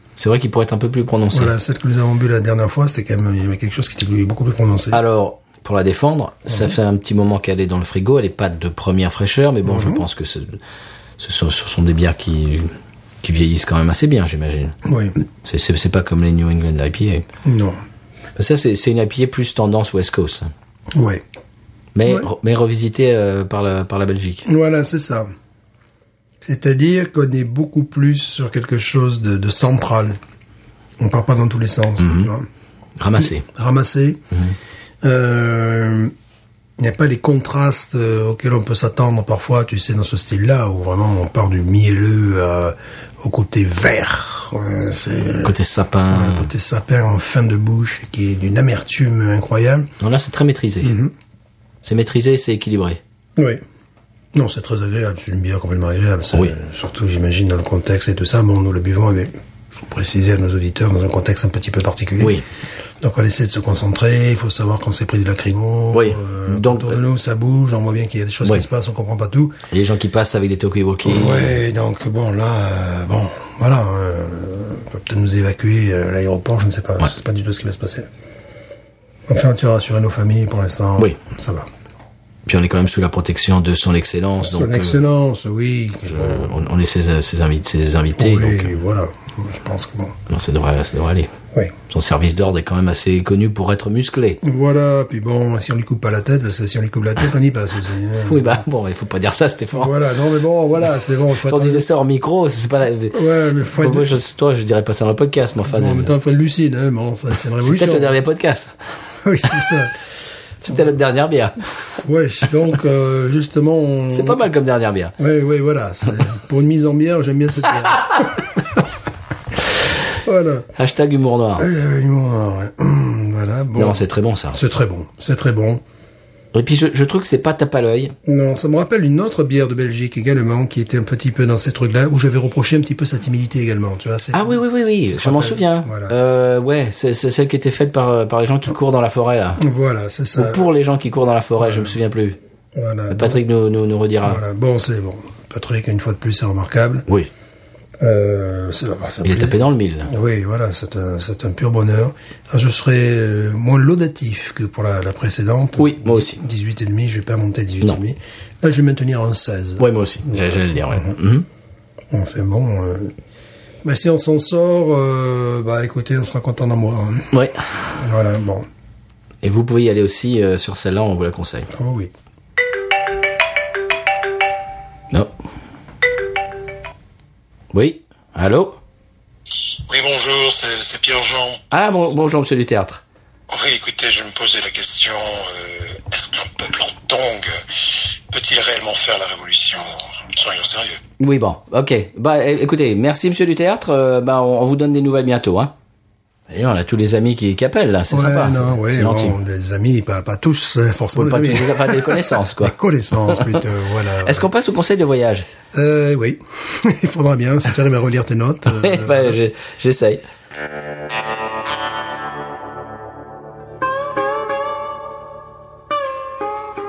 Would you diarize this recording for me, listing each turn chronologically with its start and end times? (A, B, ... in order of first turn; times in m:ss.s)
0:00.2-0:01.5 A
0:01.3-0:05.0 B
0:04.9-0:10.6 A
0:06.5-0:06.7 B
0:09.6-0:10.0 B
0:11.2-0:14.8 A
0:14.8-0:15.1 B
0:15.3-0:17.2 A
0:17.4-0:17.8 B
0:18.4-0:20.5 A
0:20.9-0:21.2 B
0:21.9-0:24.5 A
0:24.4-0:25.3 B
0:26.4-0:30.2 B
0:31.0-0:32.5 B
0:32.0-0:32.3 A
0:33.0-0:33.4 A
0:33.1-0:34.2 B
0:35.0-0:36.1 B
0:36.8-0:45.5 B
0:45.4-0:46.5 A
0:46.1-0:49.9 B
0:50.0-0:51.0 A
0:50.8-0:51.1 B
0:51.8-0:53.0 A
0:53.4-0:53.6 B
0:54.3-1:02.4 B
1:03.0-1:09.6 B
1:05.9-1:07.0 A
1:09.7-1:11.6 A
1:11.0-1:18.1 B
1:19.3-1:21.7 B
1:22.4-1:25.0 A
1:24.4-1:26.6 B
1:26.1-1:28.8 A
1:28.2-1:30.2 B
1:30.3-1:31.3 A
1:31.9-1:34.4 A
1:34.4-1:38.6 B
1:38.2-1:39.9 A
1:39.7-1:41.8 B
1:41.4-1:43.2 A
1:43.1-1:44.1 B
1:43.7-1:46.1 A
1:45.6-1:48.2 B
1:47.6-1:48.7 A
1:49.2-1:49.9 B
1:50.6-1:51.7 A
1:52.0-1:54.4 B
1:54.1-1:55.1 A
1:55.2-1:58.8 B
2:00.2-2:00.7 B
2:00.7-2:01.7 A
2:01.6-2:05.8 B
2:03.8-2:04.6 A
2:06.5-2:08.1 A
2:08.2-2:16.1 B
2:14.3-2:19.6 A
2:19.6-2:20.7 B
2:20.4-2:22.4 A
2:21.6-2:21.9 B
2:22.7-2:23.4 B
2:23.1-2:24.4 A
2:24.2-2:27.0 B
2:28.0-2:41.2 B
2:29.2-2:30.1 A
2:35.8-2:36.4 A
2:39.8-2:41.4 A
2:42.1-2:43.1 B
2:43.8-2:47.3 B
2:47.3-2:47.6 A
2:48.0-2:48.6 B
2:49.4-2:51.7 A
2:51.7-2:52.1 B
2:57.7-2:58.8 A
2:59.7-3:01.6 C
3:01.7-3:03.0 A
3:03.5-3:11.0 C
3:11.2-3:15.7 A
3:16.5-3:19.4 A
3:18.1-3:24.5 B
3:21.2-3:22.7 A
3:23.3-3:23.6 A
3:24.2-3:25.5 A
3:25.7-3:29.4 B
3:28.7-3:30.2 A